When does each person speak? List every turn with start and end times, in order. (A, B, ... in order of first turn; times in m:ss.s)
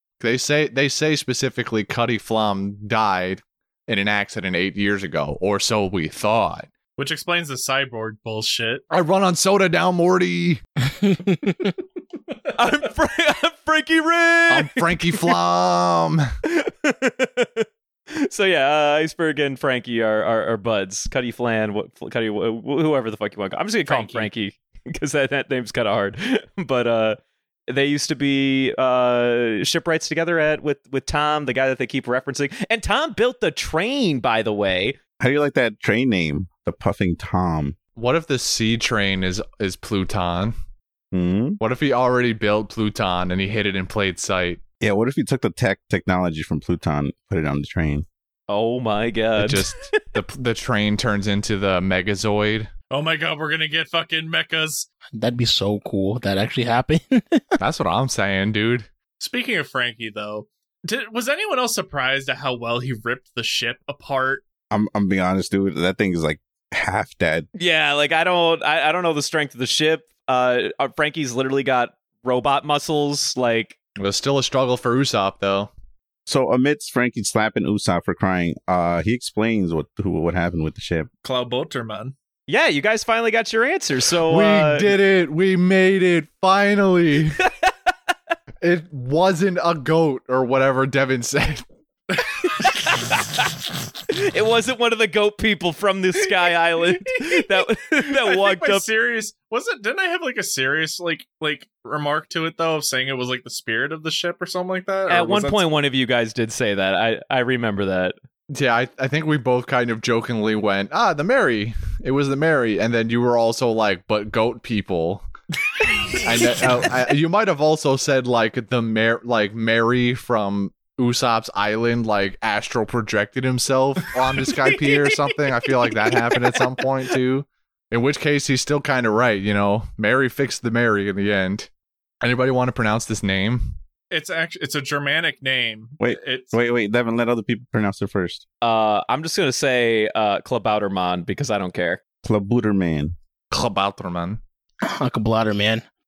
0:00.2-0:06.7 A
0:07.0-0:08.8 B
0:08.9-0:10.6 A
0:11.0-0:11.7 C
0:12.6-0:15.3 D
0:14.5-0:16.3 A
0:16.4-0:17.7 D
0:18.2-0:35.0 D
0:23.9-0:24.3 B
0:35.2-0:37.8 E
0:38.0-0:40.6 A
0:41.1-0:41.6 E
0:41.6-0:44.6 A
0:44.8-0:48.1 E
0:48.5-0:50.0 D
0:49.4-0:52.7 A
0:52.9-0:54.9 B
0:55.1-0:57.4 C
0:57.6-0:58.9 A
0:59.2-1:04.4 B
1:04.7-1:07.5 E
1:07.6-1:13.8 D
1:14.0-1:15.7 A
1:16.3-1:21.1 E
1:21.2-1:22.1 B
1:22.5-1:24.9 D
1:24.3-1:27.4 A
1:28.6-1:31.6 A
1:32.4-1:33.5 D
1:34.1-1:38.9 D
1:38.1-1:45.6 B
1:45.1-1:48.2 D
1:48.5-1:55.3 A
1:55.8-1:56.7 B
1:56.2-2:11.7 A
2:04.2-2:05.2 B
2:05.9-2:06.6 B
2:12.2-2:13.8 A
2:14.1-2:16.5 B
2:16.0-2:18.4 E
2:18.6-2:22.0 D
2:22.2-2:23.2 E
2:23.5-2:24.4 A
2:24.8-2:25.8 C